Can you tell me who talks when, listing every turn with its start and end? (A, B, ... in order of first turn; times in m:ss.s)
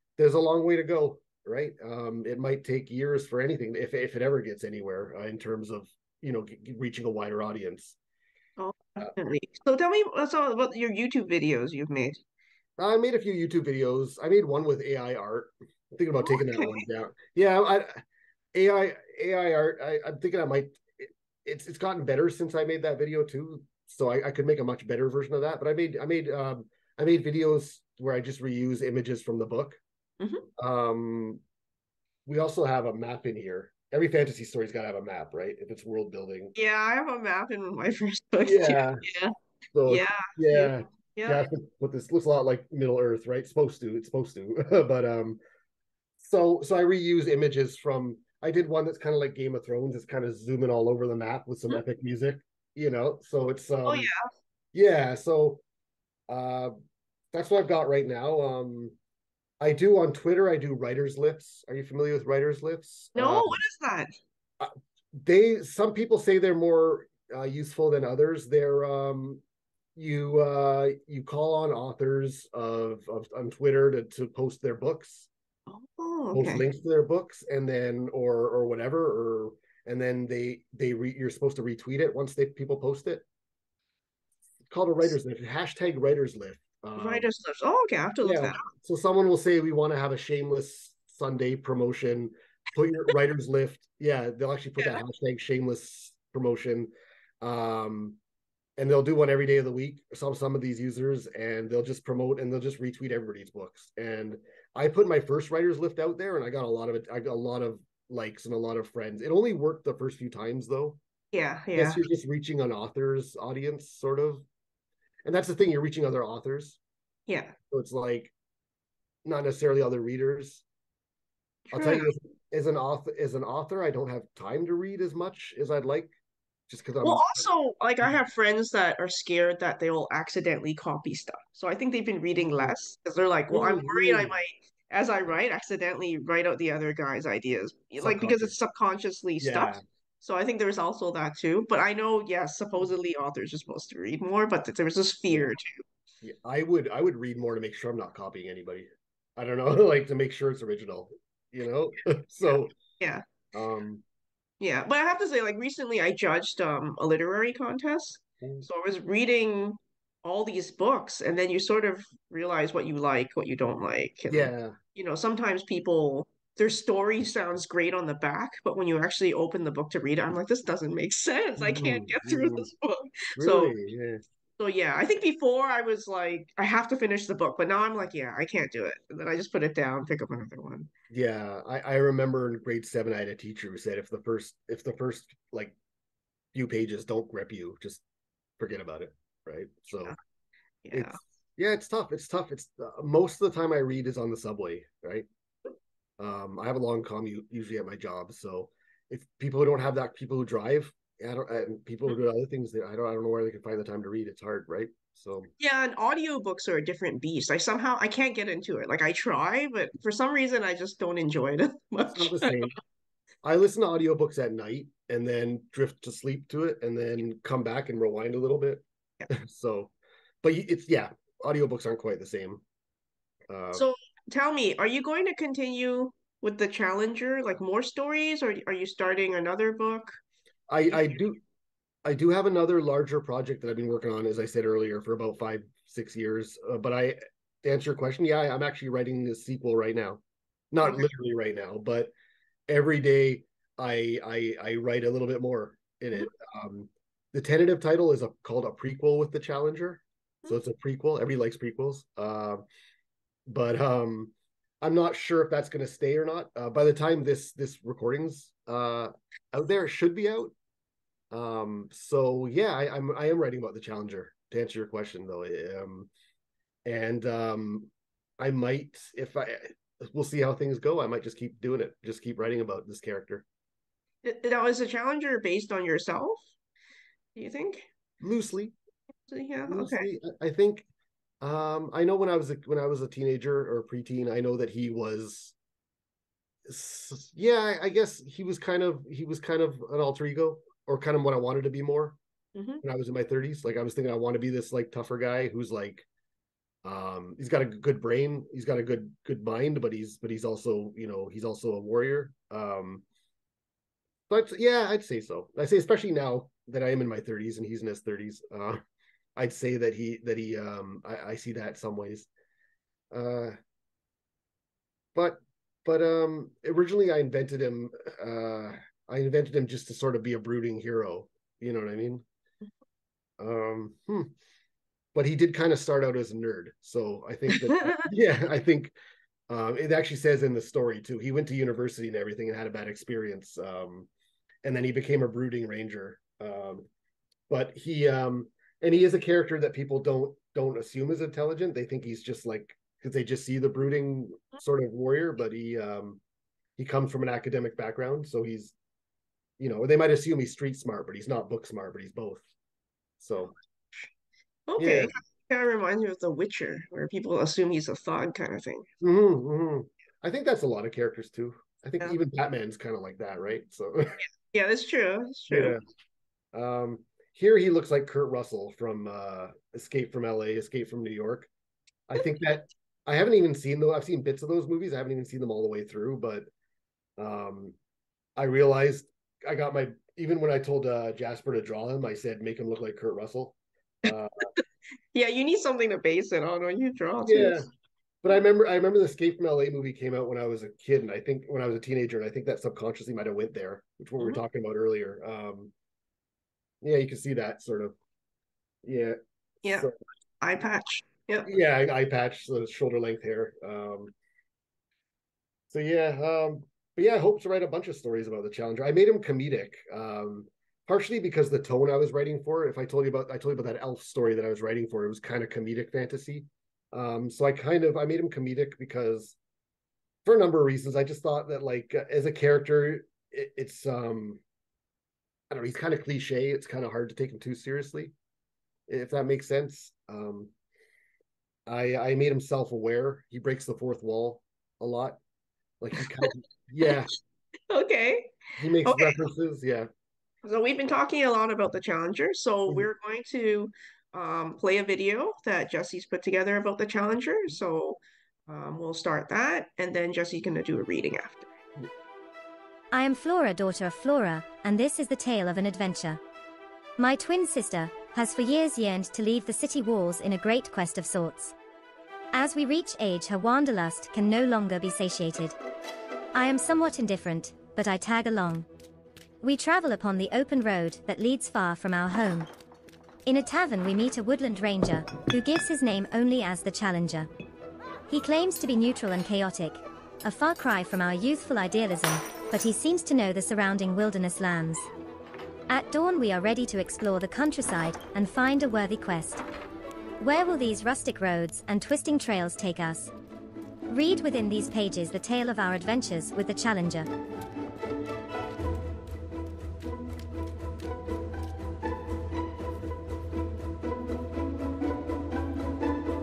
0:00.2-0:08.0 A
0:08.6-0:12.2 B
0:12.8-0:18.0 A
0:16.2-0:16.8 B
0:18.5-0:29.8 A
0:30.2-0:30.5 B
0:30.6-0:31.4 A
0:32.2-0:36.5 A
0:36.5-0:39.3 B
0:38.4-0:39.0 A
0:39.7-0:45.4 A
0:39.8-0:41.4 B
0:46.2-0:54.1 A
0:53.8-0:54.2 B
0:54.7-0:55.6 A
0:56.3-0:56.7 A
0:57.3-0:59.0 A
0:59.6-1:03.6 A
1:03.1-1:04.1 B
1:04.6-1:09.4 A
1:10.0-1:15.3 A
1:15.7-1:16.6 B
1:16.3-1:23.2 A
1:24.7-1:27.3 A
1:27.0-1:28.7 B
1:28.2-1:38.2 A
1:38.8-1:51.0 A
1:51.3-1:52.0 B
1:51.7-1:54.4 A
1:55.2-1:56.8 A
1:57.3-1:57.6 B
1:57.7-1:58.3 A
1:59.2-2:00.6 A
2:01.7-2:02.1 B
2:01.7-2:06.1 A
2:06.7-2:07.4 A
2:07.0-2:25.8 B
2:13.5-2:14.3 A
2:18.0-2:18.5 A
2:19.4-2:19.8 A
2:26.2-2:32.7 A
2:33.0-2:33.2 B
2:33.5-2:34.0 A
2:34.6-2:53.7 B
2:38.4-2:38.7 A
2:44.3-2:44.8 A
2:51.6-2:52.7 A
2:53.4-2:54.2 A
2:54.6-3:00.9 B
3:01.1-3:05.7 A
3:06.5-3:08.0 A
3:08.6-3:10.1 A
3:10.8-3:11.2 B
3:10.9-3:15.2 A
3:16.2-3:25.5 A
3:25.6-3:32.6 B
3:32.1-3:32.7 A
3:33.4-3:42.6 A
3:43.5-3:43.8 A
3:43.7-3:50.2 B
3:50.7-3:51.4 A
3:52.0-4:02.1 A
4:02.7-4:12.6 A
4:13.4-4:20.5 A
4:21.3-4:26.1 A
4:26.8-4:33.4 A
4:34.2-4:36.5 B
4:37.4-4:37.9 B
4:38.2-4:38.7 A
4:39.3-4:40.1 B
4:39.7-4:40.8 A
4:41.4-4:45.5 A
4:46.6-4:52.2 A
4:52.5-4:52.8 B
4:52.8-4:56.0 A
4:56.8-5:03.0 A
5:04.3-5:08.8 A
5:09.4-5:12.3 A
5:13.1-5:13.6 A
5:15.1-5:22.2 A
5:23.4-5:24.3 A
5:25.1-5:28.9 A
5:27.7-5:28.0 B
5:29.5-5:34.1 A
5:34.6-5:36.9 A
5:37.5-5:46.2 A
5:46.8-5:48.7 A
5:49.6-5:52.4 A
5:53.2-5:53.5 A
5:54.7-5:58.8 B
5:54.8-5:55.1 A
5:59.0-6:04.2 A
6:04.5-6:05.8 B
6:05.5-6:05.8 A
6:06.5-6:11.5 A
6:12.1-6:16.5 A
6:17.2-6:17.7 A
6:18.4-6:24.5 A
6:25.1-6:27.7 B
6:27.2-6:27.7 A
6:28.2-6:35.7 A
6:36.8-6:37.9 A
6:38.8-6:39.9 A
6:39.6-6:39.9 B
6:40.4-6:41.5 B
6:41.4-6:44.1 A
6:45.7-6:59.4 A
7:00.2-7:04.4 A
7:05.5-7:08.1 A
7:08.9-7:10.5 A
7:11.6-7:15.2 A
7:15.8-7:17.1 A
7:17.7-7:19.2 B
7:18.6-7:19.9 A
7:20.4-7:31.5 B
7:32.9-7:36.2 C
7:37.0-7:41.5 C
7:42.3-7:45.6 C
7:46.3-7:48.6 C
7:49.4-7:52.5 C
7:53.2-7:57.3 C
7:58.1-8:04.9 C
8:05.7-8:09.4 C
8:10.2-8:13.1 C
8:13.9-8:17.1 C